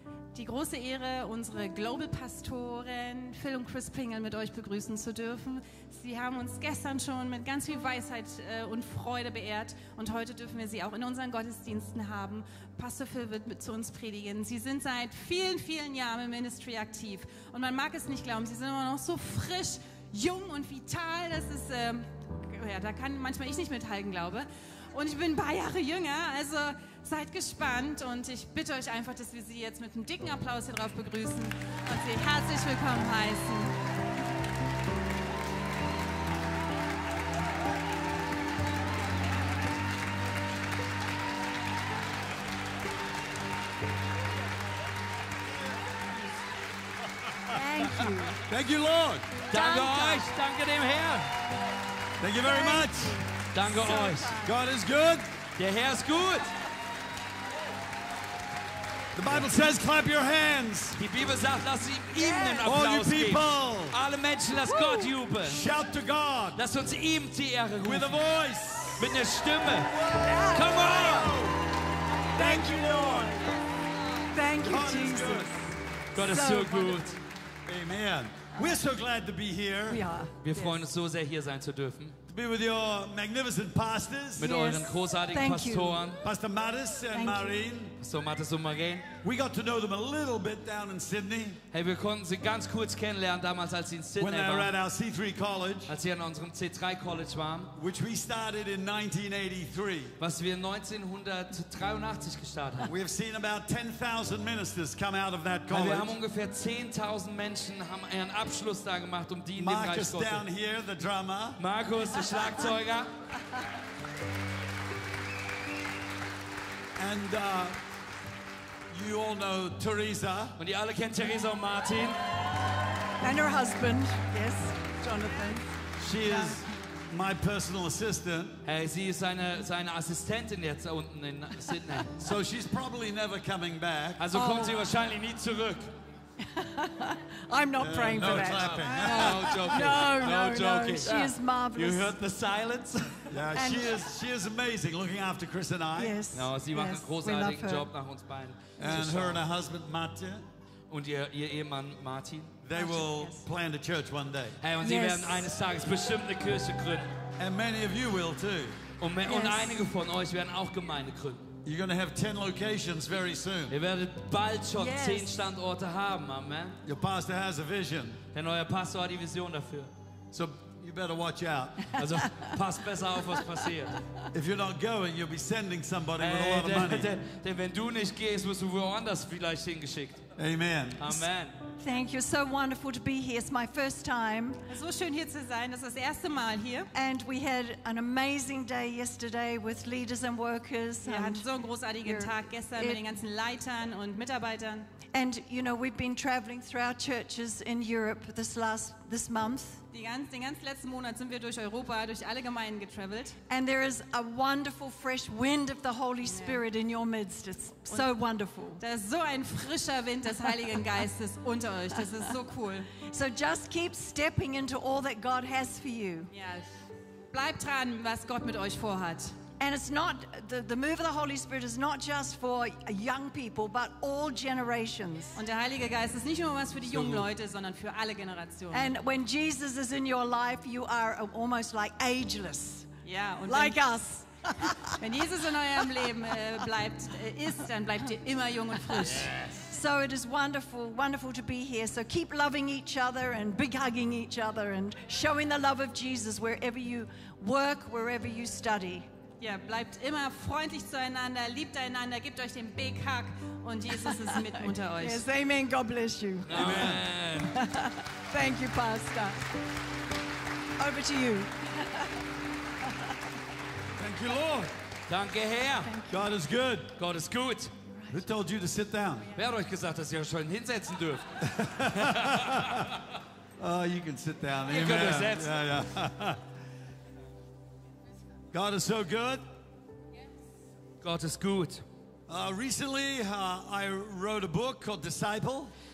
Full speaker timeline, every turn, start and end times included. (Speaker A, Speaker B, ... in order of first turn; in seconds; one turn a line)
Speaker A: 0.3-33.8
Speaker B: 47.5-48.4
Speaker C: 48.4-49.3
Speaker D: 49.5-51.3
Speaker B: 49.5-50.3
Speaker C: 52.2-53.2
Speaker B: 52.4-54.5
Speaker D: 53.5-54.3
Speaker C: 54.4-55.3
Speaker D: 55.6-56.5
Speaker C: 59.1-61.0
Speaker D: 61.0-65.6
Speaker B: 62.1-62.7
Speaker C: 62.6-64.0
Speaker B: 64.5-65.1
Speaker C: 65.4-66.6
Speaker D: 66.5-68.2
Speaker C: 67.8-69.2
Speaker D: 69.0-69.9
Speaker C: 69.8-71.6
Speaker B: 70.0-71.5
Speaker D: 70.5-71.3
Speaker B: 72.3-73.6
Speaker C: 72.3-73.4
Speaker B: 74.3-77.2
Speaker C: 74.5-75.6
Speaker D: 76.1-77.2
Speaker C: 77.7-80.0
Speaker B: 79.9-80.8
Speaker D: 80.4-82.2
Speaker C: 82.3-84.5
Speaker D: 84.4-86.2
Speaker B: 84.4-86.1
Speaker C: 86.2-87.9
Speaker B: 87.1-87.6
Speaker D: 88.0-89.1
Speaker C: 89.2-91.6
Speaker D: 91.7-94.7
Speaker C: 94.2-95.9
Speaker D: 95.9-97.8
Speaker C: 97.7-100.1
Speaker D: 100.2-102.9
Speaker C: 102.8-106.1
Speaker D: 105.7-110.4
Speaker C: 109.6-111.6
Speaker D: 111.6-113.1
Speaker C: 117.0-117.8
Speaker C: 118.9-120.6
Speaker D: 120.6-122.2
Speaker B: 123.2-125.7
Speaker C: 126.0-128.6
Speaker B: 126.2-126.6
Speaker D: 128.6-132.1
Speaker C: 132.2-134.3
Speaker D: 134.2-135.9
Speaker B: 134.3-134.9
Speaker B: 136.4-142.2
Speaker C: 137.8-140.0
Speaker D: 138.2-143.4
Speaker C: 143.3-146.2
Speaker B: 143.5-144.1
Speaker B: 145.9-147.9
Speaker D: 146.3-149.4
Speaker C: 148.8-150.4
Speaker D: 150.9-152.5
Speaker C: 152.6-154.6
Speaker B: 152.7-153.4
Speaker D: 154.6-157.1
Speaker B: 154.8-155.5
Speaker C: 157.4-158.8
Speaker D: 159.0-161.5
Speaker B: 159.2-159.9
Speaker C: 161.6-163.7
Speaker D: 163.7-166.8
Speaker B: 164.8-165.5
Speaker C: 166.8-168.2
Speaker D: 168.3-169.9
Speaker C: 170.3-172.0
Speaker D: 171.9-174.0
Speaker C: 174.3-177.1
Speaker D: 176.2-180.2
Speaker C: 180.4-181.2
Speaker D: 181.0-181.6
Speaker B: 181.8-184.7
Speaker A: 184.7-186.9
Speaker B: 186.9-191.5
Speaker A: 191.0-194.9
Speaker B: 192.0-193.0
Speaker B: 195.1-199.8
Speaker A: 199.9-203.4
Speaker B: 203.5-208.8
Speaker A: 206.3-206.6
Speaker A: 208.8-212.9
Speaker B: 213.0-216.3
Speaker A: 216.3-216.7
Speaker A: 217.3-219.3
Speaker B: 219.6-225.4
Speaker A: 225.3-228.9
Speaker D: 226.9-227.2
Speaker B: 228.7-232.9
Speaker A: 233.0-233.8
Speaker B: 233.4-236.4
Speaker A: 235.0-239.3
Speaker B: 238.9-249.1
Speaker A: 249.4-255.2
Speaker B: 253.9-259.5
Speaker D: 256.5-257.6
Speaker C: 256.5-257.0
Speaker B: 260.8-262.2
Speaker B: 262.8-263.1
Speaker C: 263.9-264.7
Speaker D: 265.1-265.9
Speaker B: 265.8-266.3
Speaker C: 266.1-266.9
Speaker D: 267.0-267.7
Speaker C: 268.1-269.3
Speaker D: 269.3-271.4
Speaker C: 271.4-273.0
Speaker D: 271.9-272.8
Speaker C: 273.6-276.4
Speaker D: 274.7-275.6
Speaker C: 278.5-279.4
Speaker D: 281.0-281.8
Speaker C: 282.3-285.7